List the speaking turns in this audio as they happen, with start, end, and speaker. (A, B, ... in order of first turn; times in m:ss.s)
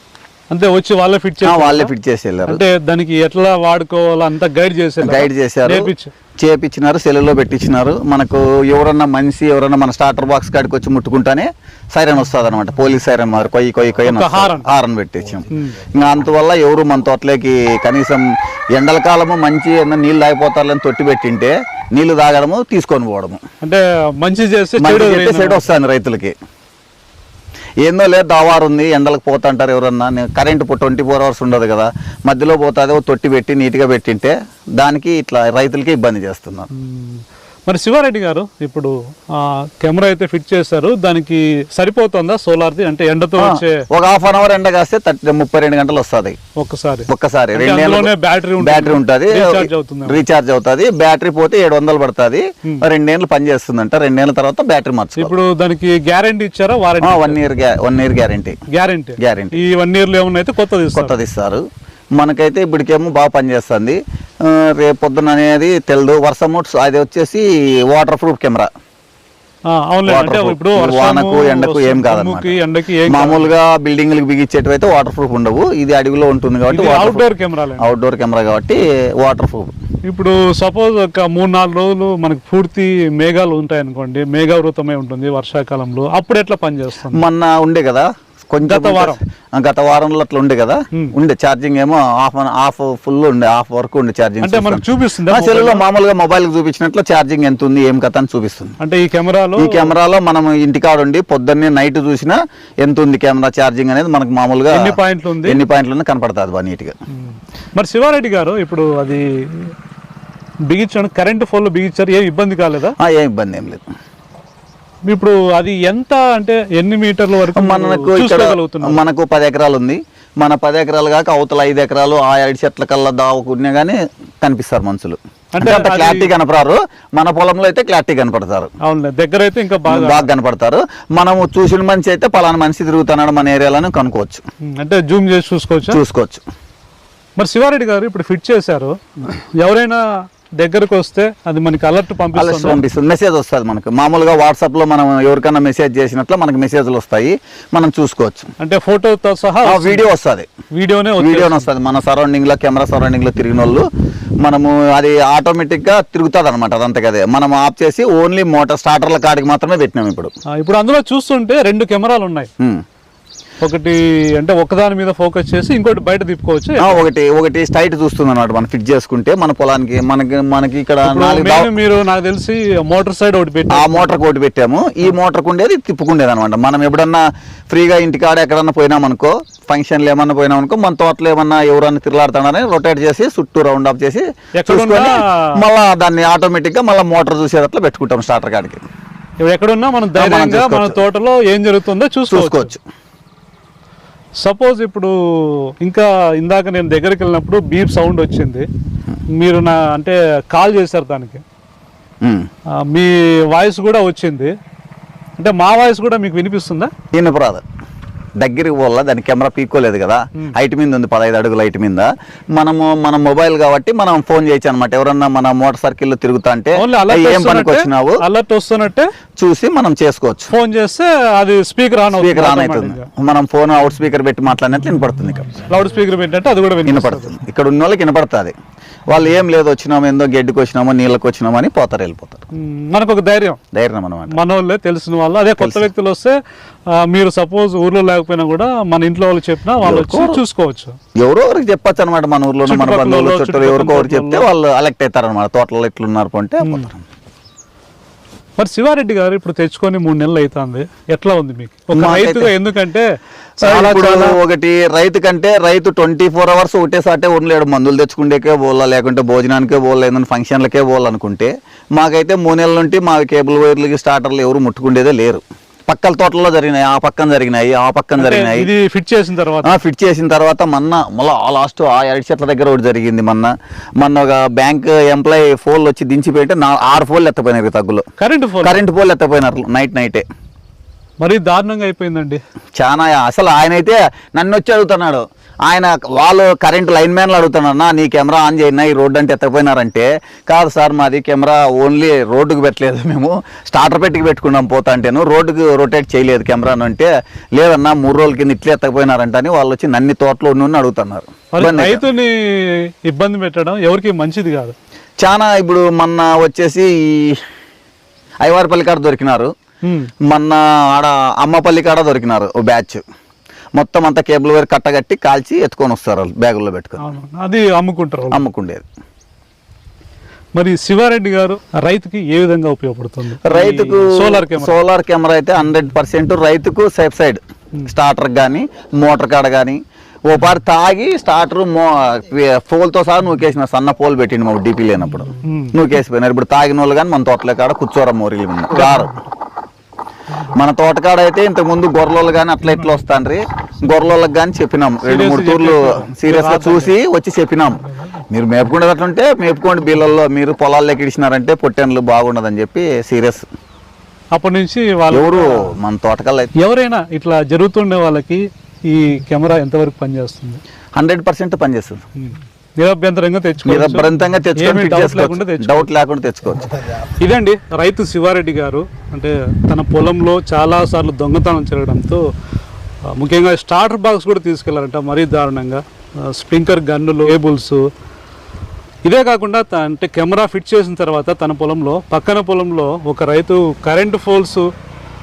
0:00.5-0:01.9 A
0:01.4-0:02.6 B
0:02.5-0:06.1 A
0:05.0-0:05.8 B
0:06.4-0:18.2 B
0:14.0-0:14.7 A
0:18.8-0:23.4 B
0:23.6-0:25.7 A
0:24.8-0:26.3 B
0:27.8-0:36.7 B
0:36.7-0:43.8 A
0:43.4-0:46.4 B
0:46.6-0:50.2 A
0:47.1-0:55.4 B
0:55.2-0:57.4 A
0:57.0-0:58.6 B
0:58.7-1:01.2 A
0:59.2-0:59.6 B
1:00.9-1:01.6 B
1:02.2-1:08.7 B
1:09.7-1:13.5 A
1:10.1-1:12.6 B
1:13.1-1:17.2 B
1:16.7-1:17.9 A
1:17.8-1:19.7 B
1:20.0-1:27.2 A
1:27.1-1:38.8 B
1:28.6-1:29.2 A
1:34.4-1:35.8 A
1:38.8-1:39.9 A
1:39.6-1:46.9 B
1:44.7-1:45.6 A
1:47.2-1:49.7 A
1:50.7-1:52.9 A
1:53.0-1:53.8 B
1:55.1-1:59.0 A
1:57.5-2:08.7 B
2:05.5-2:06.3 A
2:08.8-2:10.3 A
2:09.8-2:14.4 B
2:14.7-2:16.0 A
2:15.9-2:16.4 B
2:17.4-2:20.0 A
2:20.6-2:22.8 A
2:22.3-2:28.5 B
2:28.6-2:30.0 A
2:29.6-2:30.5 B
2:30.7-2:31.7 A
2:31.2-2:33.8 B
2:34.4-2:40.3 B
2:40.6-2:42.5 A
2:43.6-2:47.0 A
2:46.8-2:51.7 B
2:51.0-2:54.1 A
2:53.7-3:08.8 B
3:04.6-3:05.6 A
3:09.4-3:12.7 A
3:10.1-3:11.0 B
3:12.3-3:12.8 B
3:14.4-3:18.7 A
3:19.4-3:21.4 A
3:22.2-3:22.5 B
3:22.8-3:24.5 A
3:25.4-3:26.9 A
3:27.1-3:27.6 B
3:28.4-3:38.2 B
3:36.8-3:39.1 A
3:39.4-3:40.5 B
3:40.5-3:43.1 A
3:42.1-3:45.5 B
3:45.7-3:47.4 A
3:46.8-3:48.5 B
3:49.1-3:52.4 B
3:52.5-3:53.6 A
3:53.7-3:54.4 B
3:54.3-3:56.4 A
3:55.6-3:55.9 B
3:57.0-4:01.0 A
3:59.8-4:00.4 B
4:01.2-4:07.0 B
4:02.6-4:04.5 A
4:06.6-4:06.9 A
4:08.6-4:14.4 A
4:11.9-4:12.5 B
4:13.6-4:28.7 B
4:28.2-4:29.7 A
4:29.6-4:38.0 B
4:38.2-4:38.8 A
4:38.6-4:40.2 B
4:41.2-4:42.4 A
4:42.8-5:02.0 B
5:01.5-5:04.7 A
5:05.2-5:07.4 B
5:08.4-5:09.5 B
5:09.8-5:10.1 A
5:10.3-5:13.0 B
5:13.7-5:17.0 B
5:17.0-5:18.4 A
5:18.3-5:18.8 B
5:20.6-5:24.8 A
5:23.5-5:39.1 B
5:35.4-5:35.8 A
5:38.7-5:39.3 A
5:40.4-5:53.4 B
5:45.0-5:46.9 A
5:54.3-5:55.7 A
5:55.1-5:56.5 B
5:56.6-6:00.6 A
6:01.0-6:02.0 B
6:02.2-6:05.9 A
6:03.6-6:06.8 B
6:07.2-6:12.2 A
6:13.2-6:17.8 A
6:19.0-6:24.7 A